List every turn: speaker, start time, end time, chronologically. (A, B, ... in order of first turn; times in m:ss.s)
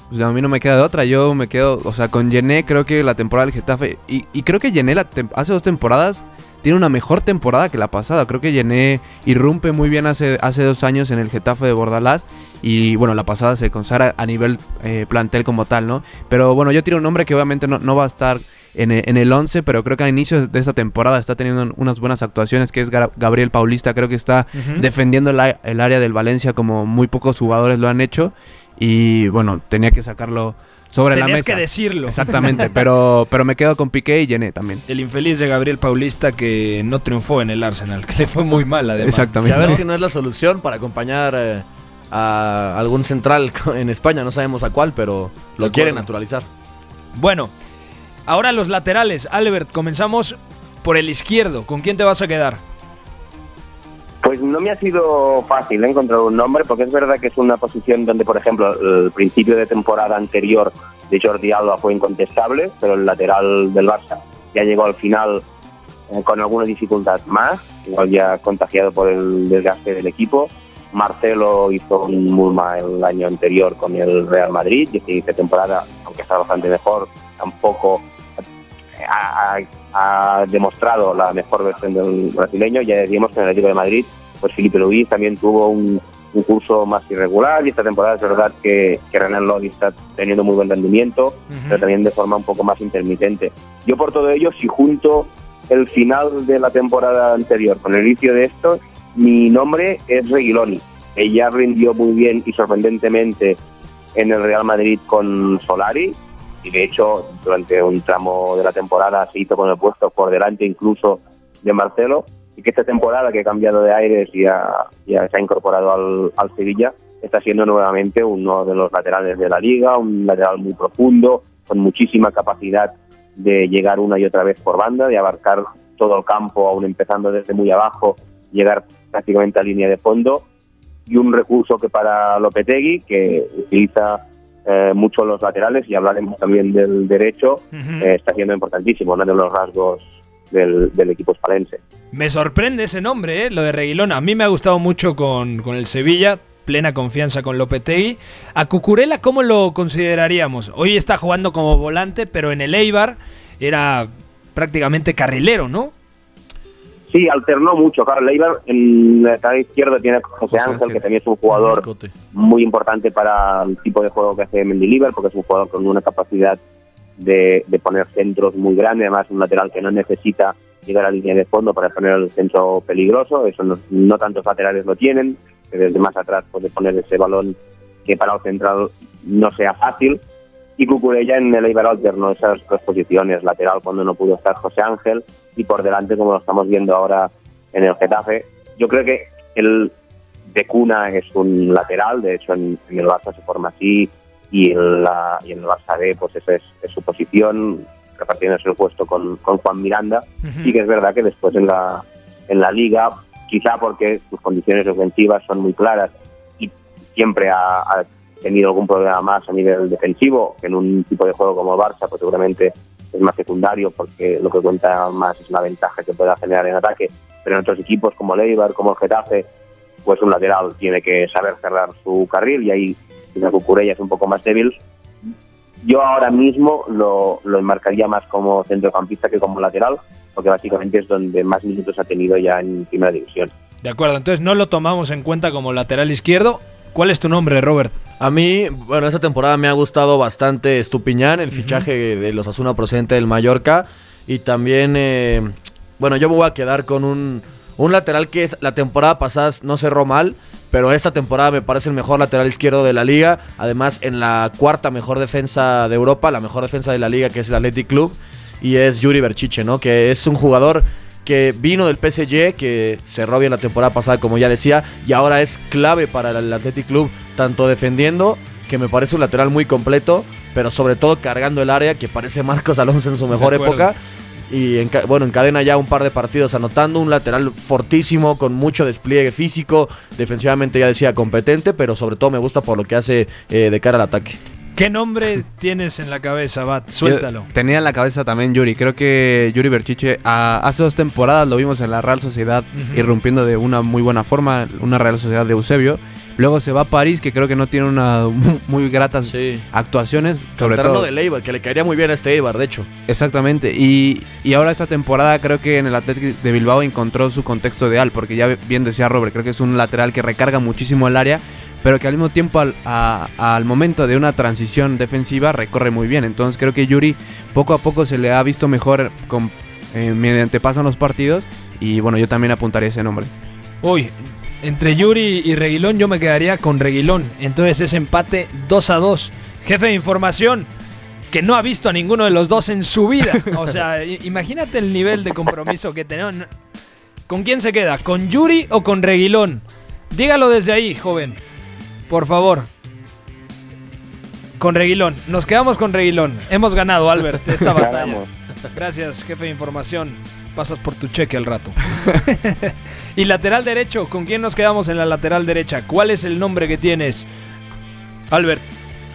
0:00.1-0:34.8 A
0:24.5-0:24.8 B
0:31.1-0:32.6 B
0:34.9-0:39.8 B
0:39.0-0:39.8 A
0:39.4-0:46.5 C
0:45.6-0:46.0 B
0:47.2-0:47.5 B
0:48.3-0:52.6 B
0:54.2-1:05.4 D
1:06.1-1:18.1 D
1:19.0-1:43.6 D
1:31.5-1:31.8 B
1:44.2-2:10.4 D
2:11.1-2:21.8 D
2:17.7-2:18.1 B
2:22.1-2:35.9 B
2:37.1-2:46.6 D
2:40.5-2:41.0 C
2:41.7-2:42.1 C
2:47.2-3:00.2 D
3:00.8-3:09.9 D
3:10.5-3:39.5 D
3:20.4-3:20.7 B
3:40.0-3:44.8 D
3:45.8-3:53.5 D
3:53.8-3:57.9 B
3:58.2-4:34.0 C
4:01.5-4:01.8 B
4:33.3-4:33.8 B
4:34.5-4:44.4 C
4:44.8-4:47.5 B
4:47.0-5:01.1 A
4:52.7-4:53.0 B
4:59.2-4:59.6 C
5:00.6-5:02.9 C
5:03.1-5:23.3 A
5:23.8-5:30.7 B
5:31.3-5:36.5 B
5:37.3-5:41.4 B
5:42.1-5:42.7 B
5:44.6-5:48.2 B
5:47.7-5:48.3 D
5:48.7-5:57.2 B
5:58.3-5:58.6 B